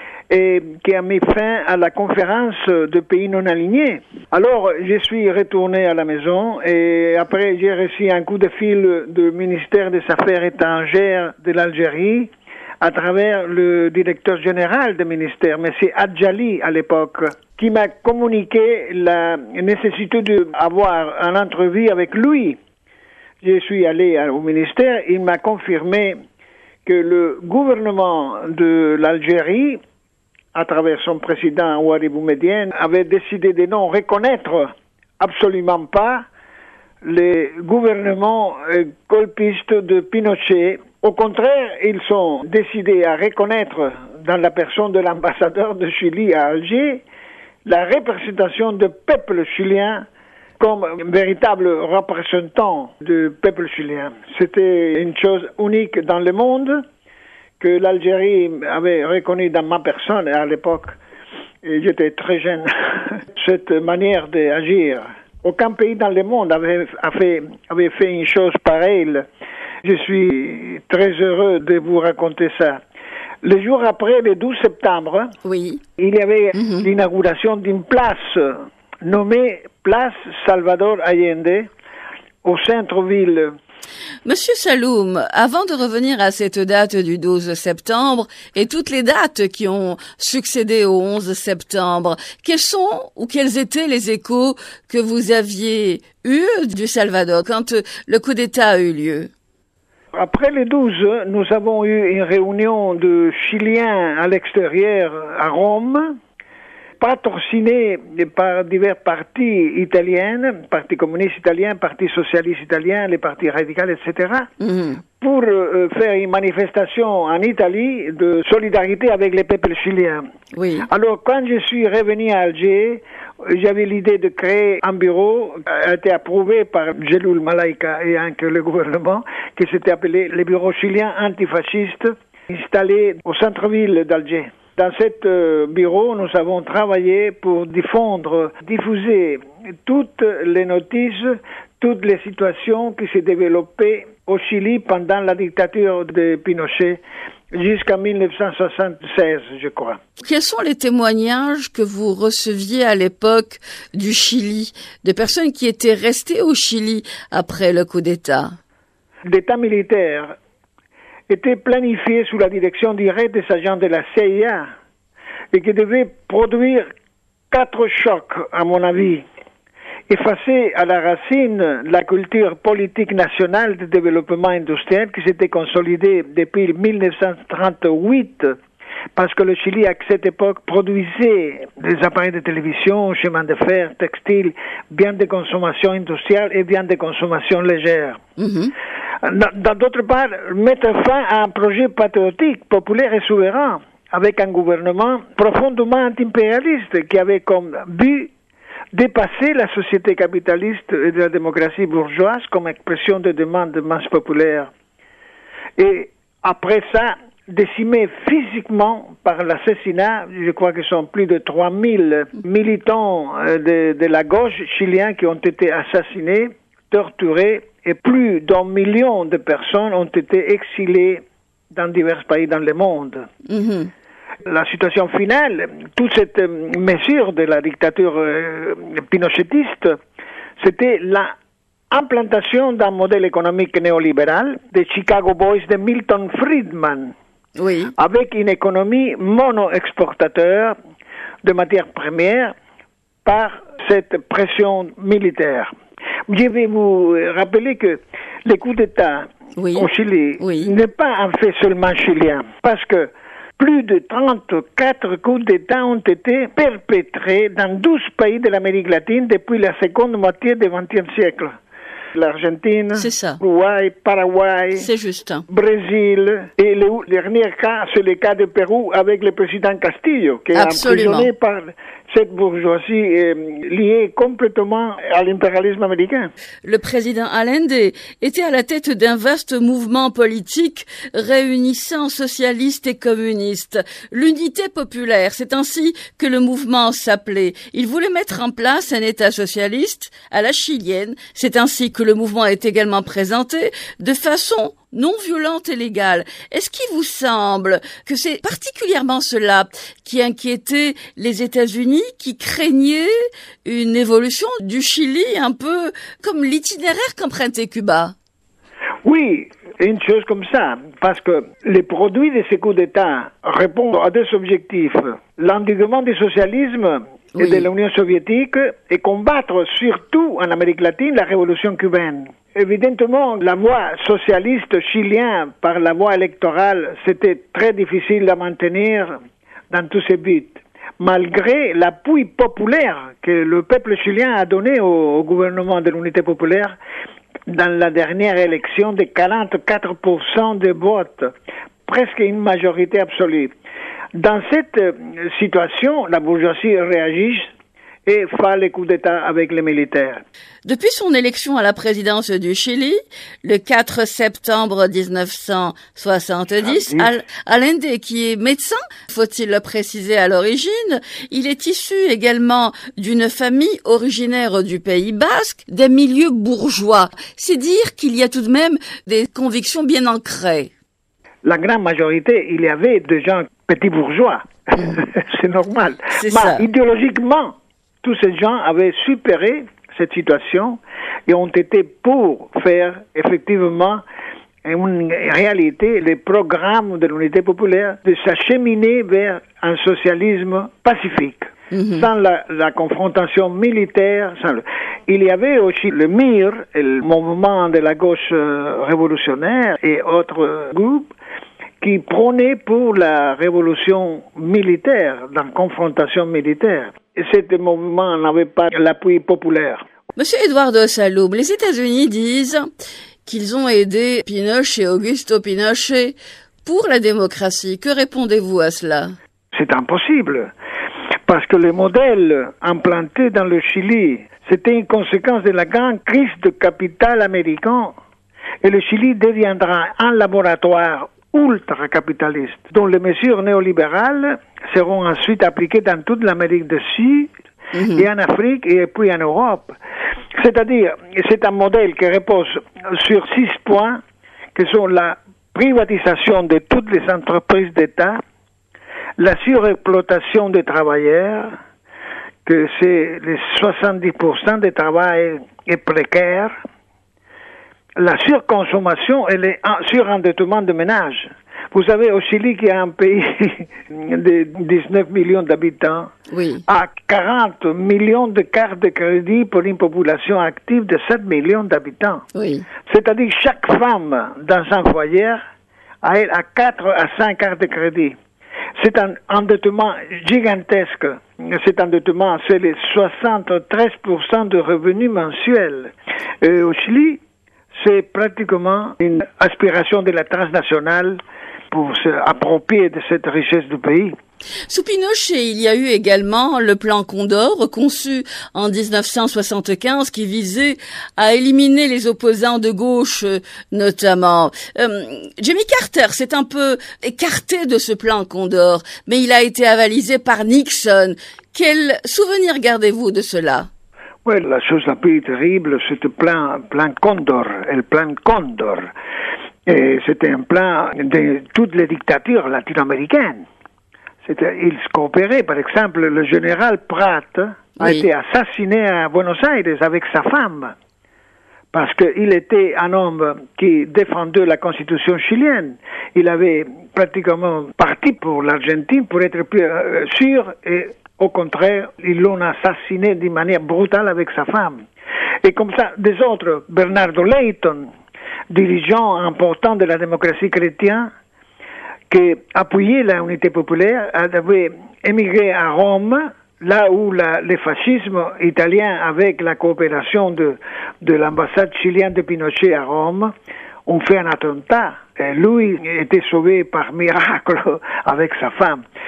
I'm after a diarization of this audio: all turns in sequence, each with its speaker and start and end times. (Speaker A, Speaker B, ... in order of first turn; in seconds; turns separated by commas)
Speaker A: 0.3-12.3, Speaker A: 12.8-22.6, Speaker A: 23.4-26.2, Speaker A: 26.9-29.8, Speaker A: 30.5-36.2, Speaker A: 37.0-47.0, Speaker A: 47.6-50.0, Speaker A: 50.6-56.8, Speaker A: 57.6-60.9, Speaker A: 61.6-69.2, Speaker A: 69.8-72.8, Speaker A: 73.4-75.3, Speaker B: 75.4-75.8, Speaker A: 76.0-81.7, Speaker B: 76.5-76.9, Speaker A: 82.4-83.5, Speaker B: 84.2-99.3, Speaker A: 100.1-106.2, Speaker A: 107.0-114.5, Speaker B: 114.6-115.0, Speaker A: 115.2-120.2, Speaker B: 120.5-120.9, Speaker A: 120.9-147.0, Speaker A: 147.5-150.0, Speaker B: 150.2-158.6, Speaker A: 159.2-160.3, Speaker A: 161.3-164.7, Speaker A: 165.5-166.9, Speaker A: 167.5-169.2, Speaker A: 170.1-178.6, Speaker A: 179.2-188.2, Speaker B: 188.4-188.7, Speaker A: 189.2-198.3, Speaker A: 198.9-204.7, Speaker A: 205.8-223.3, Speaker B: 223.4-223.9, Speaker A: 224.4-230.0, Speaker A: 230.6-231.3, Speaker A: 231.9-237.1, Speaker B: 237.6-237.9, Speaker A: 238.0-240.7, Speaker A: 241.4-242.5, Speaker A: 243.2-245.7, Speaker A: 246.3-261.6, Speaker B: 249.6-249.9, Speaker B: 250.4-250.7, Speaker A: 262.1-264.9, Speaker B: 262.9-263.4, Speaker B: 264.7-265.4, Speaker A: 265.5-276.3, Speaker B: 270.5-271.3, Speaker B: 276.6-303.1, Speaker B: 303.6-308.1, Speaker A: 309.0-329.2, Speaker B: 317.3-317.7, Speaker A: 329.7-336.8, Speaker A: 337.5-341.3, Speaker A: 341.9-343.5, Speaker A: 344.1-347.5, Speaker A: 348.1-350.2, Speaker B: 350.6-370.7, Speaker A: 356.6-357.1, Speaker A: 371.4-384.0, Speaker B: 376.1-376.6, Speaker A: 384.6-401.1, Speaker B: 391.7-392.1, Speaker A: 401.8-409.8, Speaker B: 410.1-412.7, Speaker B: 413.2-419.1, Speaker A: 419.5-420.5, Speaker A: 421.3-427.9, Speaker A: 428.6-437.3, Speaker B: 437.7-438.1, Speaker A: 437.9-439.8, Speaker A: 440.4-444.0, Speaker A: 444.5-448.2, Speaker A: 449.2-451.5, Speaker A: 452.4-456.5, Speaker A: 458.0-466.1, Speaker B: 466.3-466.6, Speaker A: 466.7-472.2, Speaker B: 472.3-472.6, Speaker A: 472.9-475.4, Speaker A: 476.0-478.1, Speaker A: 478.8-487.2, Speaker A: 487.7-494.1, Speaker B: 494.7-513.7, Speaker A: 514.2-518.9, Speaker A: 519.6-523.4, Speaker A: 524.2-530.7, Speaker B: 527.8-528.1, Speaker A: 531.7-544.8, Speaker A: 545.4-547.9, Speaker A: 548.5-551.1, Speaker A: 552.1-563.3, Speaker A: 563.9-568.8